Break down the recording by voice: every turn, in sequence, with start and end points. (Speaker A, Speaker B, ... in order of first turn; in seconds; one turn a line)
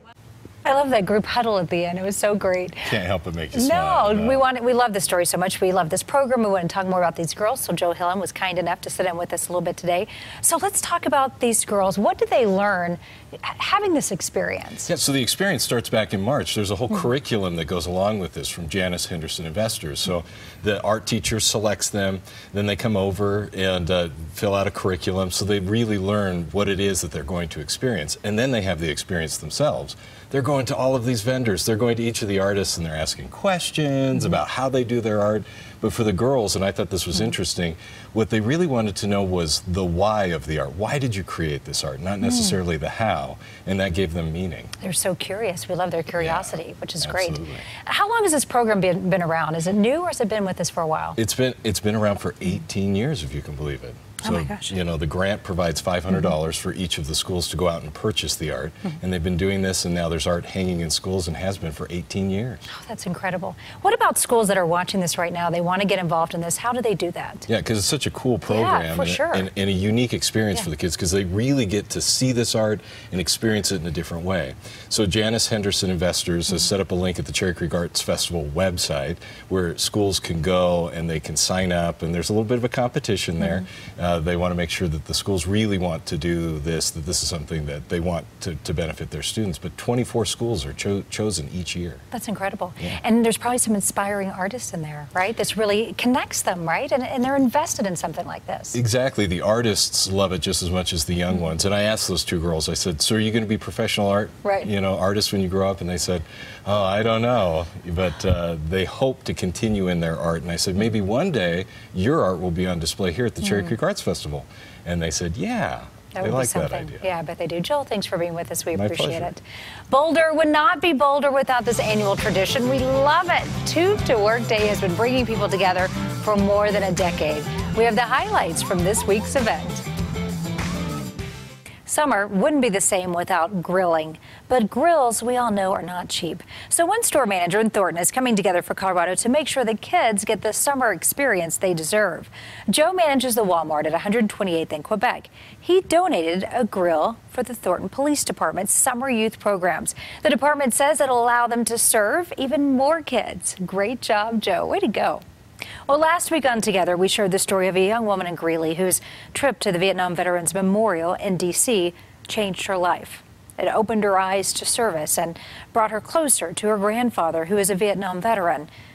Speaker A: 0.6-2.8
Speaker B: 2.8-4.4
Speaker A: 3.5-14.9
Speaker B: 14.8-44.7
Speaker A: 44.8-51.2
Speaker B: 46.2-47.6
Speaker B: 51.2-62.6
Speaker A: 54.2-54.8
Speaker A: 62.7-67.5
Speaker B: 67.5-92.0
Speaker A: 68.5-69.5
Speaker A: 92.1-98.8
Speaker B: 98.7-117.1
Speaker A: 104.4-104.7
Speaker A: 113.4-113.7
Speaker A: 116.1-129.8
Speaker B: 118.7-119.3
Speaker A: 131.8-155.2
Speaker A: 155.9-168.7